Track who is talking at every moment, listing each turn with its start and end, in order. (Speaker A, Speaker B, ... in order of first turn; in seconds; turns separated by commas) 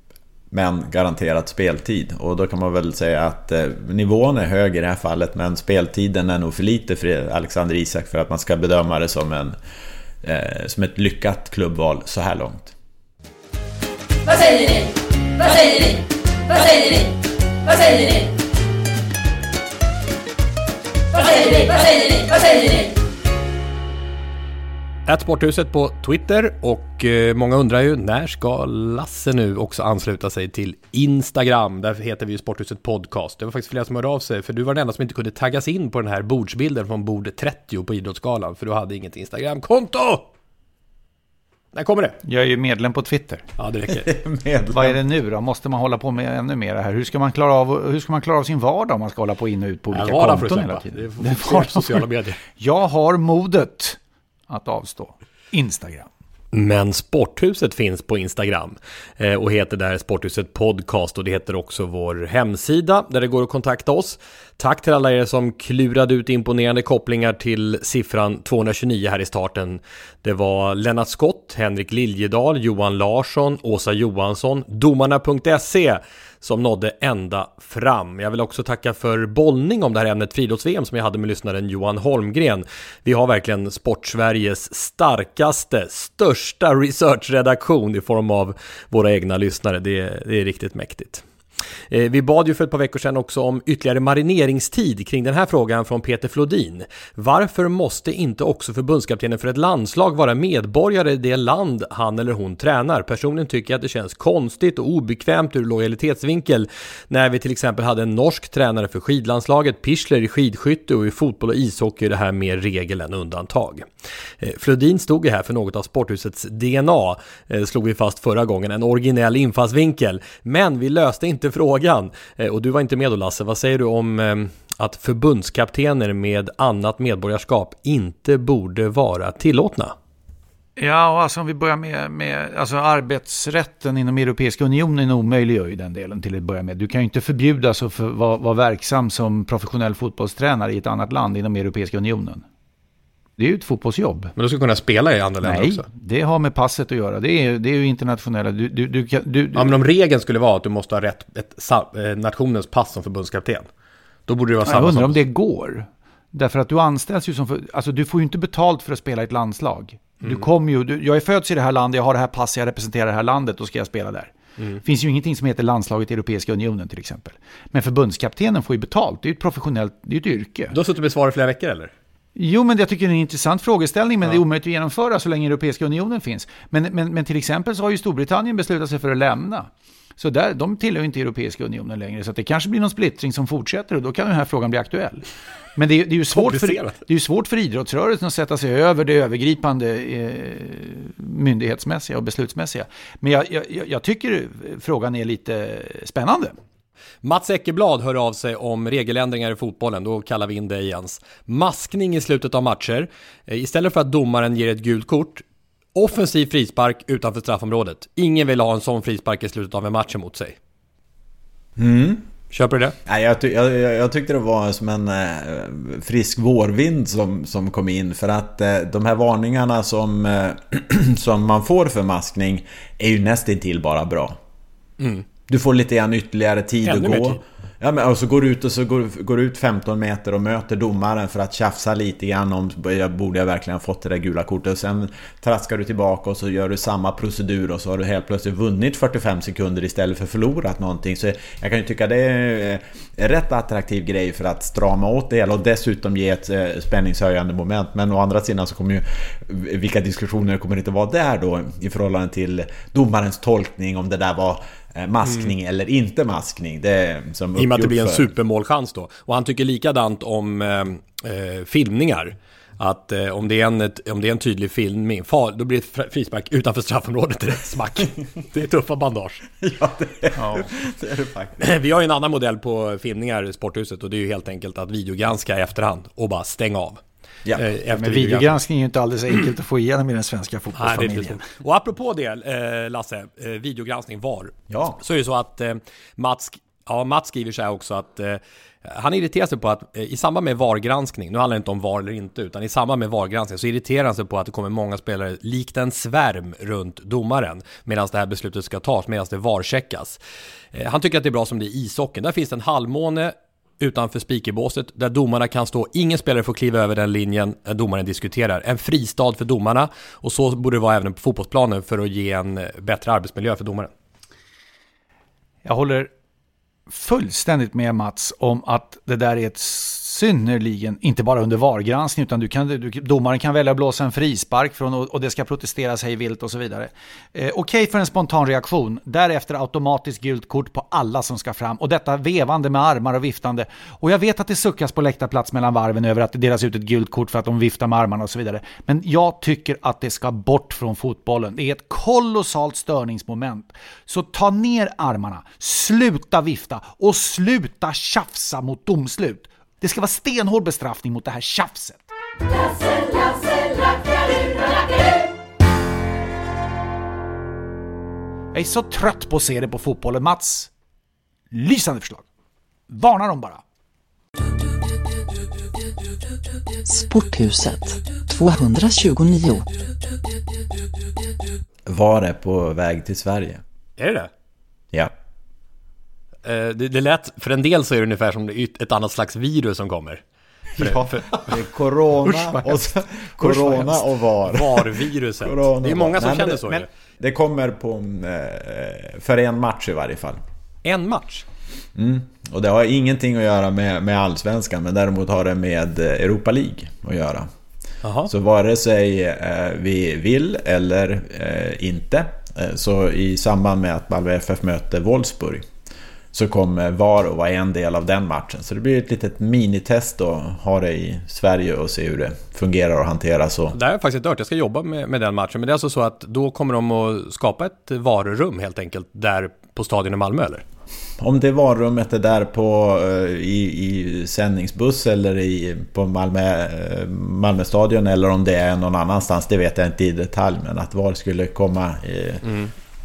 Speaker A: 0.5-9.6, Speaker A: 10.2-12.7, Speaker B: 14.2-17.1, Speaker B: 17.6-18.3, Speaker B: 21.1-22.9, Speaker C: 25.1-40.3, Speaker C: 41.7-42.2, Speaker D: 42.2-43.4, Speaker C: 43.6-44.1, Speaker A: 43.9-45.0, Speaker D: 44.7-56.1, Speaker C: 49.9-52.4, Speaker C: 56.5-91.2, Speaker C: 91.9-113.8, Speaker C: 114.4-129.9, Speaker D: 130.8-142.4, Speaker D: 143.4-144.3, Speaker C: 144.3-145.8, Speaker D: 145.4-149.7, Speaker C: 149.5-153.7, Speaker C: 154.3-155.2, Speaker D: 154.6-164.3, Speaker C: 160.2-160.5, Speaker D: 164.8-170.7, Speaker C: 170.7-171.9, Speaker D: 172.3-185.2, Speaker D: 185.8-196.5, Speaker C: 186.3-187.0, Speaker C: 197.2-205.4, Speaker C: 205.9-210.6, Speaker A: 211.8-212.2, Speaker C: 212.5-212.9, Speaker A: 213.1-224.4, Speaker C: 225.0-225.2, Speaker A: 225.5-258.3, Speaker C: 226.8-227.4, Speaker C: 255.2-255.5, Speaker C: 257.6-269.4, Speaker A: 269.6-271.7, Speaker D: 270.4-270.7, Speaker C: 271.6-277.0, Speaker C: 277.6-278.6, Speaker D: 277.9-281.4, Speaker C: 280.7-300.2, Speaker A: 284.7-285.0, Speaker C: 300.7-313.9, Speaker D: 315.6-316.1, Speaker D: 316.9-352.0, Speaker D: 358.5-360.7, Speaker D: 361.5-362.2, Speaker D: 362.9-363.6, Speaker E: 366.8-369.7, Speaker A: 371.9-373.6, Speaker C: 374.0-374.3, Speaker C: 376.4-380.2, Speaker A: 380.8-390.4, Speaker C: 380.8-381.5, Speaker C: 384.4-386.9, Speaker C: 390.8-391.4, Speaker A: 391.9-397.5, Speaker C: 398.0-398.3, Speaker A: 398.2-405.6, Speaker A: 406.3-413.8, Speaker C: 413.7-420.6, Speaker A: 421.2-432.5